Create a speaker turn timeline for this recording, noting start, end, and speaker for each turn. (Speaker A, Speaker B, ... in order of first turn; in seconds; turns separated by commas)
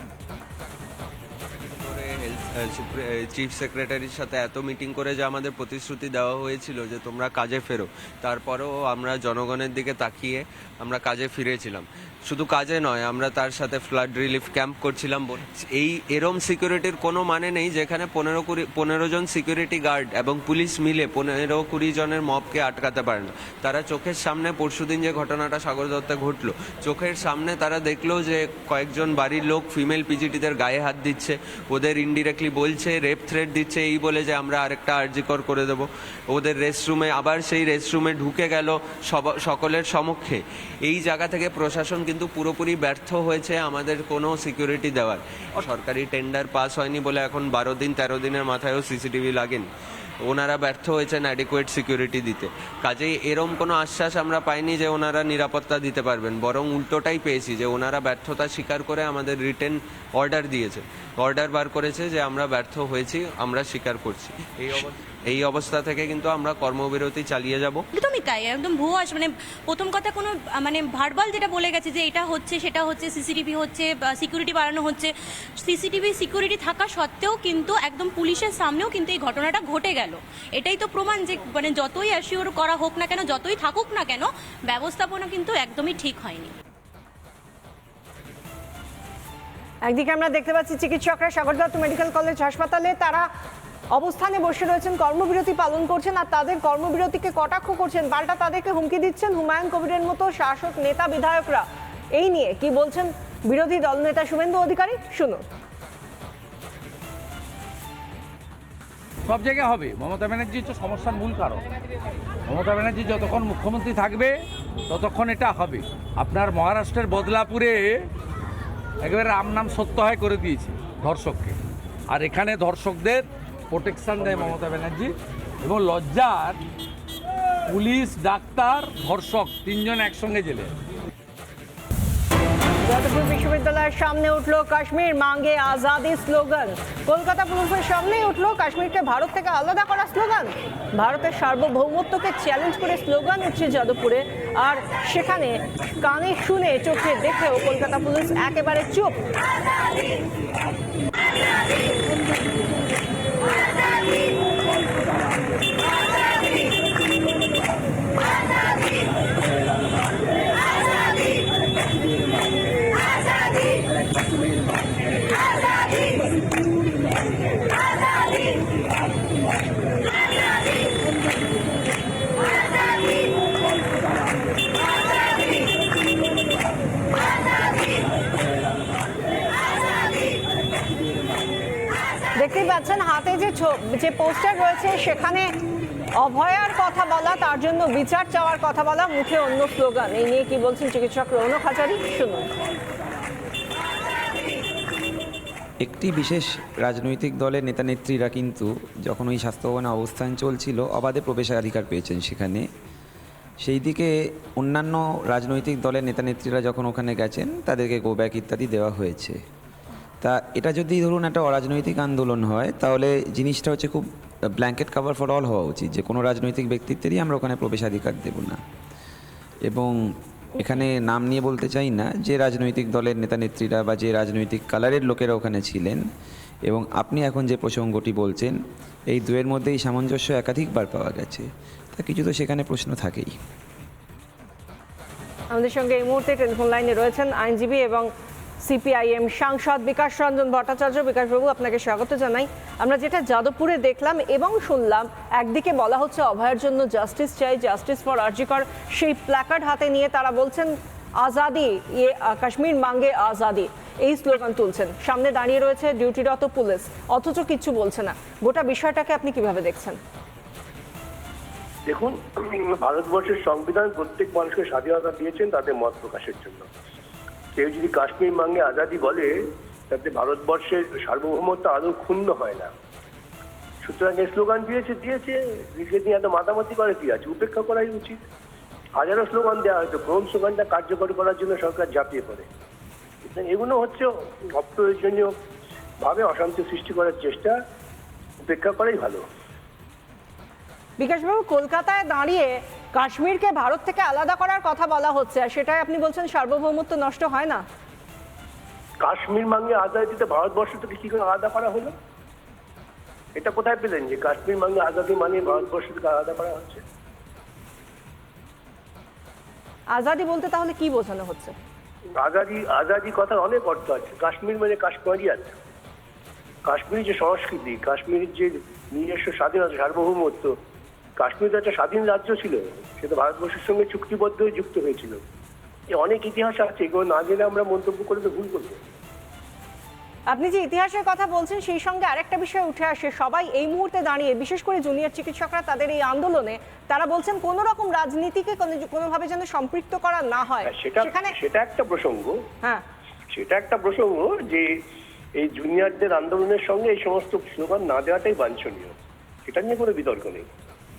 Speaker A: 1.7-49.7, Speaker A: 50.3-67.8, Speaker B: 67.9-86.5, Speaker C: 89.8-93.3, Speaker C: 93.9-105.4, Speaker D: 109.3-111.6, Speaker D: 112.5-114.4, Speaker D: 114.9-118.1, Speaker D: 119.0-121.6, Speaker D: 122.1-126.6, Speaker D: 127.7-130.7, Speaker C: 132.8-149.2, Speaker C: 182.4-185.5, Speaker C: 186.2-192.5, Speaker E: 195.8-202.6, Speaker E: 203.6-209.4, Speaker E: 210.2-218.6, Speaker E: 219.7-219.9, Speaker E: 220.6-226.0, Speaker E: 226.7-228.6, Speaker E: 229.1-233.3, Speaker C: 235.5-238.1, Speaker C: 238.6-250.7, Speaker C: 251.2-260.0, Speaker F: 261.9-266.7, Speaker F: 267.6-269.3, Speaker F: 269.9-272.7, Speaker F: 273.8-278.2, Speaker F: 279.0-282.5, Speaker F: 283.2-285.3, Speaker F: 286.0-287.5, Speaker F: 288.4-289.2, Speaker C: 291.0-297.6, Speaker F: 299.0-301.9, Speaker F: 303.4-306.8, Speaker C: 309.9-311.5, Speaker F: 312.2-315.6, Speaker F: 316.7-320.5, Speaker F: 321.2-325.2, Speaker F: 326.0-328.8, Speaker C: 330.3-341.3, Speaker F: 340.7-342.4, Speaker F: 343.3-344.7, Speaker F: 345.4-348.9, Speaker F: 349.5-350.5